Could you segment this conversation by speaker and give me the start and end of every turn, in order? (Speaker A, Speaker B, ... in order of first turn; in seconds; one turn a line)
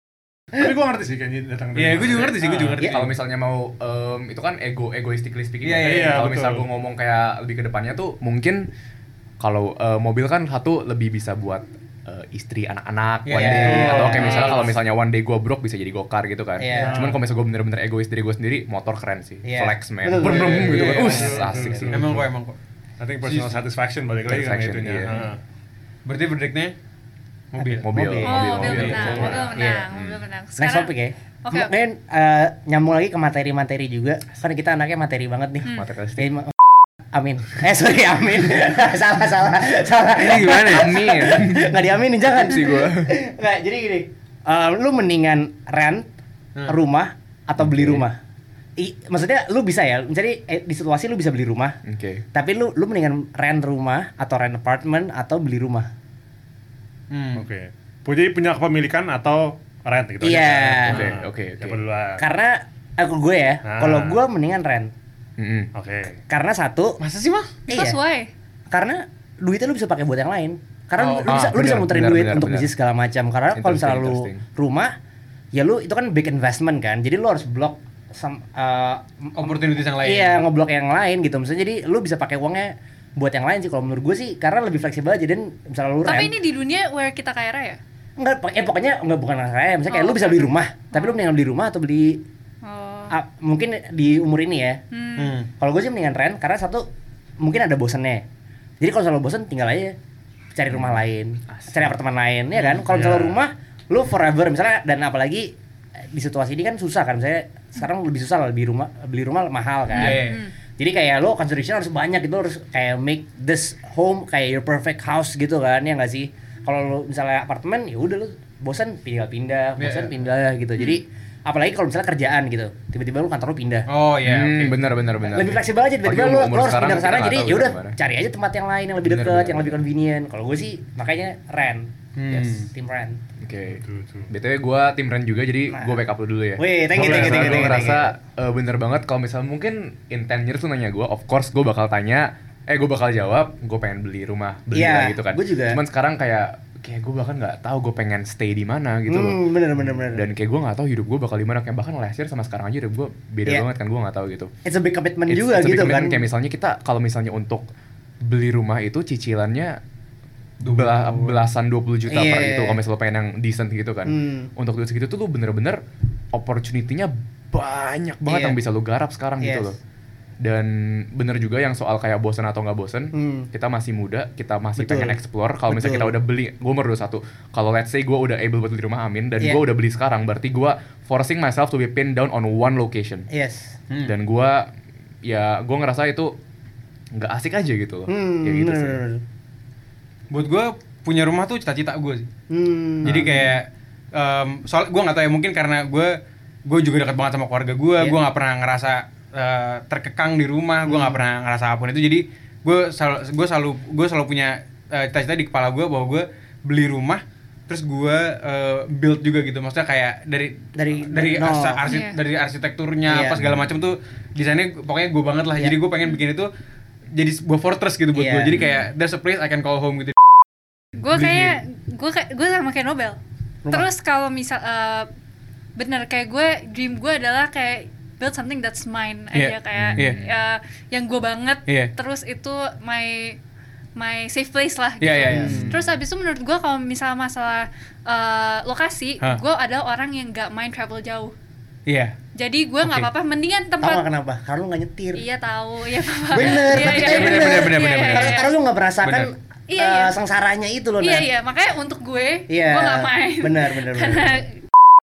Speaker A: 0.5-2.8
Speaker B: 1.8-3.1
Speaker C: 2.8-8.7
Speaker B: 5.6-6.2
Speaker A: 5.8-6.7
Speaker C: 9.4-22.2
Speaker B: 13.2-14.4
Speaker D: 13.3-14.2
Speaker A: 13.6-14.7
Speaker E: 14.2-14.6
Speaker D: 16.6-17.1
Speaker A: 16.7-17.2
Speaker D: 19.4-21.9
Speaker A: 20.3-22.3
Speaker B: 20.4-21.3
Speaker B: 21.9-22.6
Speaker A: 23.0-25.4
Speaker B: 23.2-23.6
Speaker C: 24.3-25.2
Speaker B: 26.1-26.8
Speaker B: 27.5-27.9
Speaker C: 27.8-30.2
Speaker D: 27.9-29.9
Speaker E: 28.2-30.9
Speaker B: 28.6-29.3
Speaker A: 29.0-29.5
Speaker D: 30.6-36.5
Speaker E: 31.4-31.8
Speaker C: 35.7-36.3
Speaker D: 37.1-46.1
Speaker B: 40.1-41.0
Speaker C: 40.7-43.1
Speaker D: 46.6-48.2
Speaker C: 47.6-48.0
Speaker D: 48.8-51.8
Speaker C: 51.9-52.2
Speaker D: 52.3-55.9
Speaker B: 57.1-57.5
Speaker A: 57.4-62.2
Speaker D: 60.2-61.0
Speaker C: 60.9-61.8
Speaker D: 62.2-64.9
Speaker A: 63.6-64.3
Speaker C: 65.4-65.7
Speaker A: 65.7-66.2
Speaker D: 66.3-67.0
Speaker B: 67.0-67.5
Speaker E: 67.7-68.3
Speaker D: 67.7-68.0
Speaker D: 68.7-75.0
Speaker B: 71.0-71.4
Speaker C: 71.2-72.7
Speaker C: 73.5-74.4
Speaker D: 75.5-86.3
Speaker B: 79.4-80.4
Speaker E: 86.0-87.8
Speaker D: 88.2-92.2
Speaker E: 89.9-91.2
Speaker E: 92.6-93.1
Speaker D: 93.1-94.8
Speaker E: 94.9-95.4
Speaker B: 95.2-95.5
Speaker D: 95.6-96.9
Speaker D: 97.4-98.2
Speaker D: 98.8-100.0
Speaker D: 100.5-105.5
Speaker C: 101.5-101.9
Speaker B: 102.5-103.3
Speaker D: 106.1-110.2
Speaker E: 109.9-110.5
Speaker B: 110.0-110.4
Speaker D: 110.8-123.9
Speaker B: 119.8-120.1
Speaker B: 123.9-124.8
Speaker C: 124.2-128.0
Speaker D: 125.2-133.2
Speaker C: 129.0-129.9
Speaker B: 132.2-132.7
Speaker C: 133.4-149.4
Speaker A: 133.7-134.3
Speaker D: 135.7-136.0
Speaker D: 136.6-138.1
Speaker B: 137.0-137.5
Speaker A: 137.3-137.8
Speaker D: 144.7-145.8
Speaker D: 149.1-150.2
Speaker C: 150.0-154.5
Speaker D: 154.7-156.2
Speaker C: 155.3-157.7
Speaker C: 158.2-159.8
Speaker C: 160.6-165.8
Speaker B: 160.6-161.4
Speaker D: 162.1-162.8
Speaker D: 164.1-164.5
Speaker C: 166.3-169.8
Speaker D: 168.3-168.6
Speaker D: 169.4-169.8
Speaker C: 170.4-183.3
Speaker D: 173.1-173.5
Speaker D: 174.8-175.2
Speaker D: 175.7-176.2
Speaker D: 183.3-183.8
Speaker B: 183.9-184.2
Speaker C: 184.0-184.7
Speaker C: 185.2-186.4
Speaker C: 187.1-189.0
Speaker D: 188.1-189.2
Speaker B: 190.3-192.3
Speaker D: 192.5-193.6
Speaker B: 193.0-216.5
Speaker D: 200.8-201.2
Speaker D: 210.8-211.8
Speaker E: 211.8-212.2
Speaker D: 213.1-213.4
Speaker B: 217.1-220.2
Speaker D: 218.1-218.6
Speaker E: 218.5-218.9
Speaker E: 221.0-223.2
Speaker B: 221.1-221.6
Speaker E: 223.7-225.1
Speaker E: 225.8-233.4
Speaker B: 229.3-230.2
Speaker C: 229.7-230.3
Speaker B: 231.7-231.9
Speaker E: 234.0-241.3
Speaker B: 235.0-235.8
Speaker D: 235.2-235.8
Speaker B: 241.9-242.2
Speaker E: 242.3-244.1
Speaker D: 243.8-245.2
Speaker E: 245.2-248.5
Speaker D: 246.3-251.3
Speaker B: 246.3-248.4
Speaker B: 249.0-249.3
Speaker E: 249.7-250.2
Speaker E: 251.0-254.5
Speaker D: 252.5-254.4